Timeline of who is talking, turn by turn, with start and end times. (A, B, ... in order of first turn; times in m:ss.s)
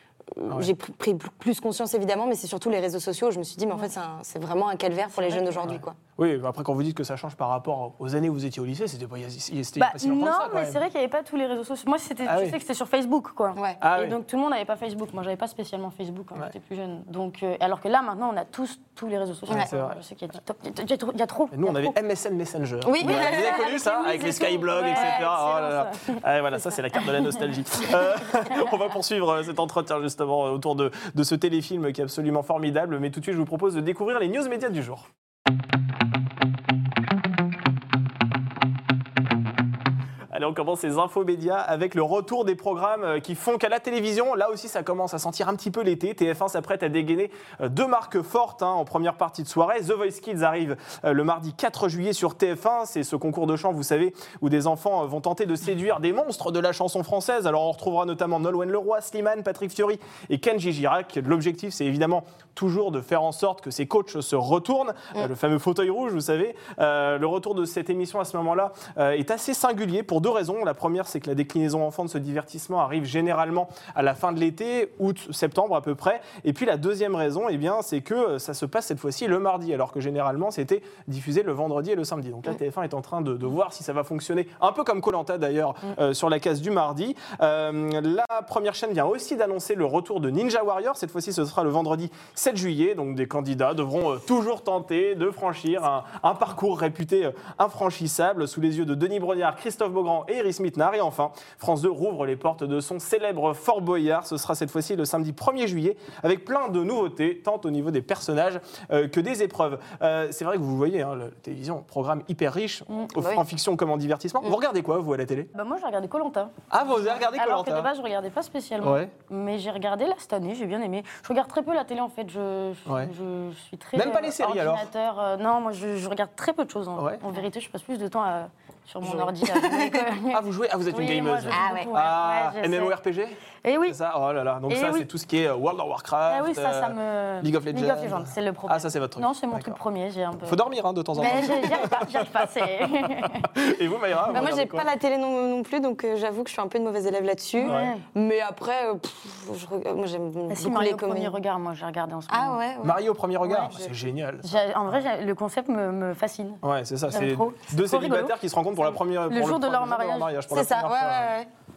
0:00.3-0:06.0 A
0:05.1-0:05.8 B
0:05.7-0:10.8 C
0:09.8-0:21.9 B
0:12.2-0:12.6 C
0:13.8-0:14.2 C
0:19.5-0:20.0 C
0:21.5-0:35.1 C
0:22.8-0:23.8 A
0:23.0-0:26.2 B
0:40.3-1:55.5 C
1:53.2-1:53.4 A
1:55.6-1:56.6 B
1:56.7-1:57.9 C
1:57.2-2:13.0 B
1:58.8-1:59.1 C
2:02.9-2:03.1 C
2:04.0-2:04.9 C
2:09.0-2:10.1 A
2:10.3-2:19.8 C
2:11.5-2:12.0 A
2:13.6-2:14.0 B
2:14.7-2:15.1 B
2:16.3-2:20.6 B
2:20.4-2:22.6 C
2:21.2-2:23.5 B
2:23.2-2:24.9 C
2:24.3-2:31.4 A
2:27.6-2:28.0 B
2:27.6-2:27.9 C
2:30.5-2:32.6 B
2:32.3-2:33.0 A
2:32.8-2:35.0 C
2:33.4-2:33.7 B
2:34.4-2:38.4 B
2:36.6-2:41.3 C
2:39.3-2:40.3 B
2:40.5-2:41.5 A